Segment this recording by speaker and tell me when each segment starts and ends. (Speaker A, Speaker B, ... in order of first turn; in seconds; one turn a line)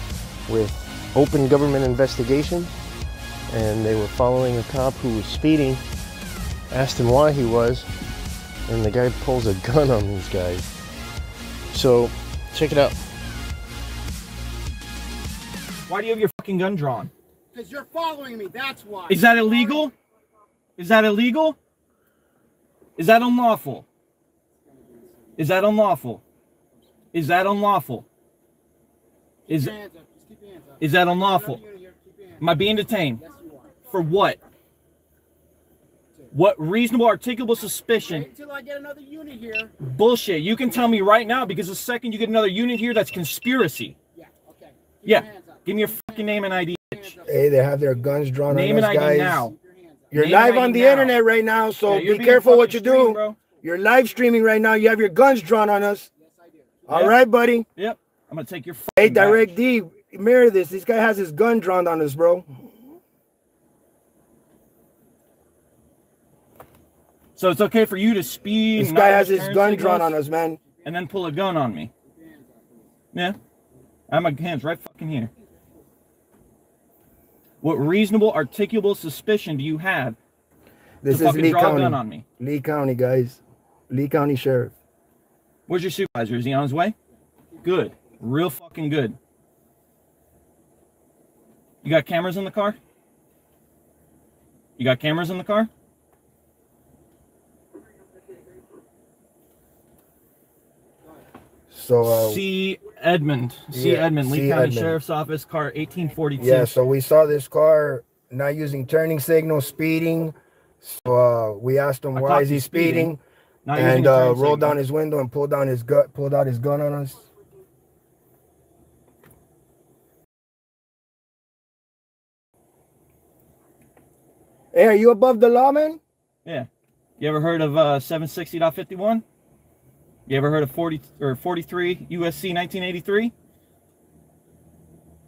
Speaker A: 0.5-2.7
Speaker A: 3.5-5.8
Speaker A: 6.7-7.9
Speaker A: 8.7-10.7
Speaker A: 11.7-13.0
Speaker B: 15.9-17.1
Speaker C: 17.5-19.2
Speaker B: 19.1-19.9
Speaker B: 20.8-21.6
Speaker B: 23.0-23.9
Speaker C: 24.6-25.4
Speaker B: 25.4-26.2
Speaker B: 27.1-28.1
Speaker B: 29.5-29.8
Speaker C: 29.5-32.4
Speaker B: 30.8-31.6
Speaker B: 32.4-33.2
Speaker C: 33.2-33.8
Speaker B: 33.9-34.4
Speaker B: 36.3-38.3
Speaker C: 37.9-39.7
Speaker B: 39.8-44.0
Speaker C: 44.1-46.0
Speaker B: 45.0-47.2
Speaker C: 46.9-47.4
Speaker D: 47.3-49.5
Speaker B: 48.5-49.5
Speaker C: 49.4-50.1
Speaker D: 50.1-56.1
Speaker B: 50.1-51.2
Speaker B: 51.9-53.4
Speaker C: 56.2-57.0
Speaker D: 56.9-57.7
Speaker B: 56.9-57.2
Speaker B: 57.8-59.5
Speaker D: 59.0-62.5
Speaker B: 67.4-70.2
Speaker D: 68.8-70.6
Speaker B: 70.8-71.9
Speaker C: 72.0-72.9
Speaker B: 74.1-75.3
Speaker B: 77.6-80.2
Speaker D: 81.0-84.7
Speaker B: 81.1-82.2
Speaker B: 85.7-87.0
Speaker B: 87.6-89.2
Speaker B: 91.8-92.8
Speaker B: 94.8-95.7
Speaker D: 101.7-102.4
Speaker B: 102.0-106.7
Speaker D: 103.7-105.0
Speaker D: 106.4-113.2
Speaker B: 112.1-113.1
Speaker B: 113.7-114.8
Speaker D: 113.7-117.3
Speaker D: 124.7-126.0
Speaker B: 127.2-129.2
Speaker B: 130.3-133.3